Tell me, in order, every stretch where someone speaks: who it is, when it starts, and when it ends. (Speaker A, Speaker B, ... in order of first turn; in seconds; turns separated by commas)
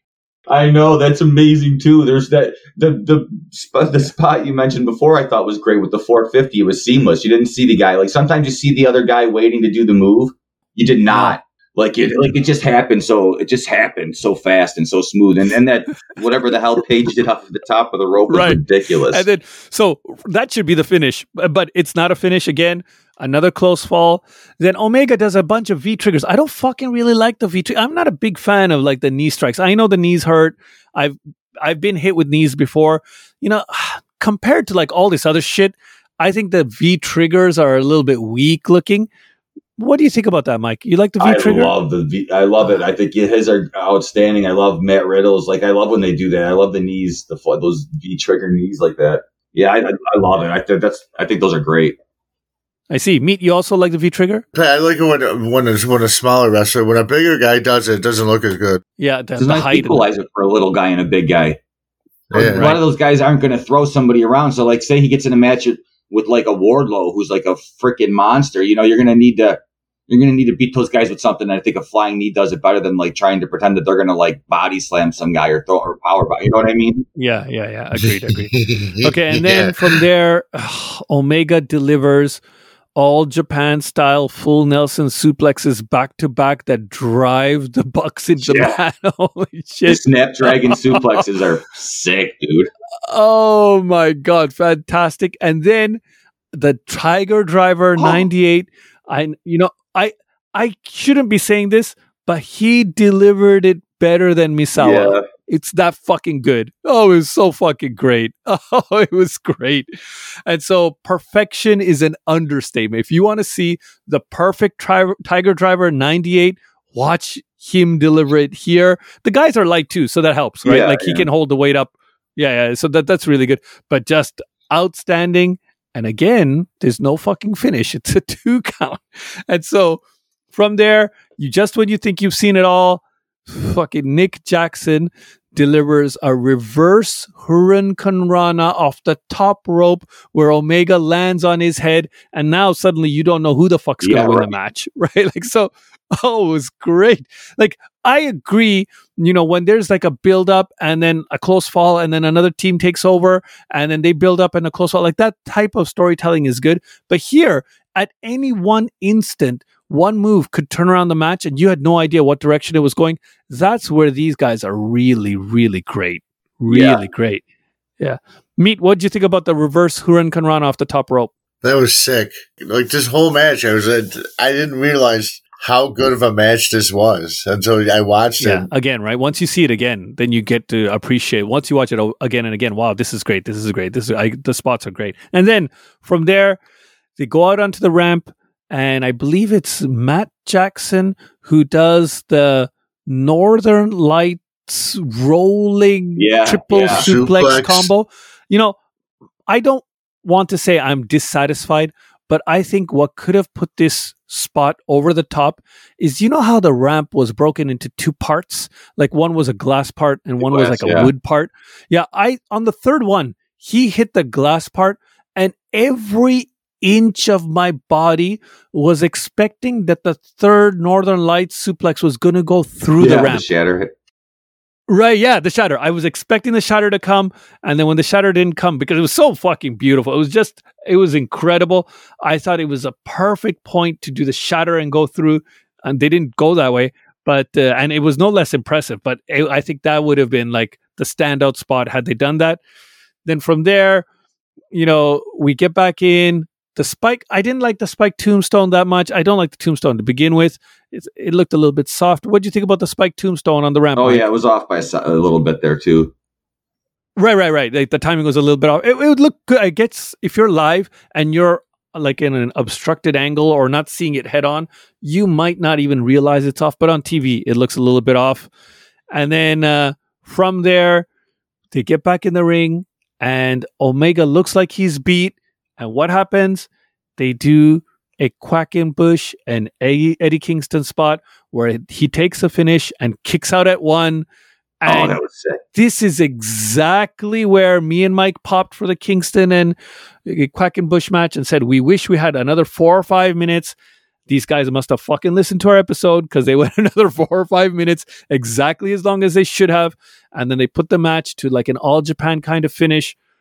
Speaker A: 0.5-19.2, Speaker B: 11.1-11.4, Speaker B: 18.3-18.6, Speaker B: 19.1-39.1, Speaker B: 39.8-41.7, Speaker A: 41.2-52.0, Speaker B: 52.9-54.4, Speaker C: 54.5-58.8, Speaker B: 59.0-60.0, Speaker A: 59.4-61.6, Speaker C: 62.3-62.7, Speaker A: 62.3-77.0, Speaker B: 62.5-62.8, Speaker B: 77.2-82.4, Speaker C: 78.3-80.0, Speaker B: 83.0-91.2, Speaker A: 88.4-88.8, Speaker A: 89.9-92.7, Speaker B: 93.0-96.0, Speaker B: 96.5-109.9, Speaker A: 98.0-98.2, Speaker A: 104.8-105.2, Speaker B: 110.5-130.0, Speaker A: 120.6-121.3, Speaker B: 130.5-167.4, Speaker A: 144.0-144.5, Speaker A: 166.7-167.0, Speaker B: 168.0-171.3, Speaker C: 171.6-178.7, Speaker B: 178.4-186.6, Speaker B: 187.2-198.8, Speaker A: 196.2-197.1, Speaker C: 196.9-197.9, Speaker B: 199.5-223.4, Speaker A: 210.4-211.1, Speaker A: 223.0-223.9, Speaker B: 224.9-242.6, Speaker B: 243.2-244.1, Speaker B: 244.7-254.2, Speaker A: 253.9-256.1, Speaker B: 257.2-268.5, Speaker B: 269.1-271.1, Speaker B: 271.7-284.2, Speaker B: 284.8-285.2, Speaker A: 284.9-285.6, Speaker B: 285.7-293.7, Speaker B: 294.3-303.2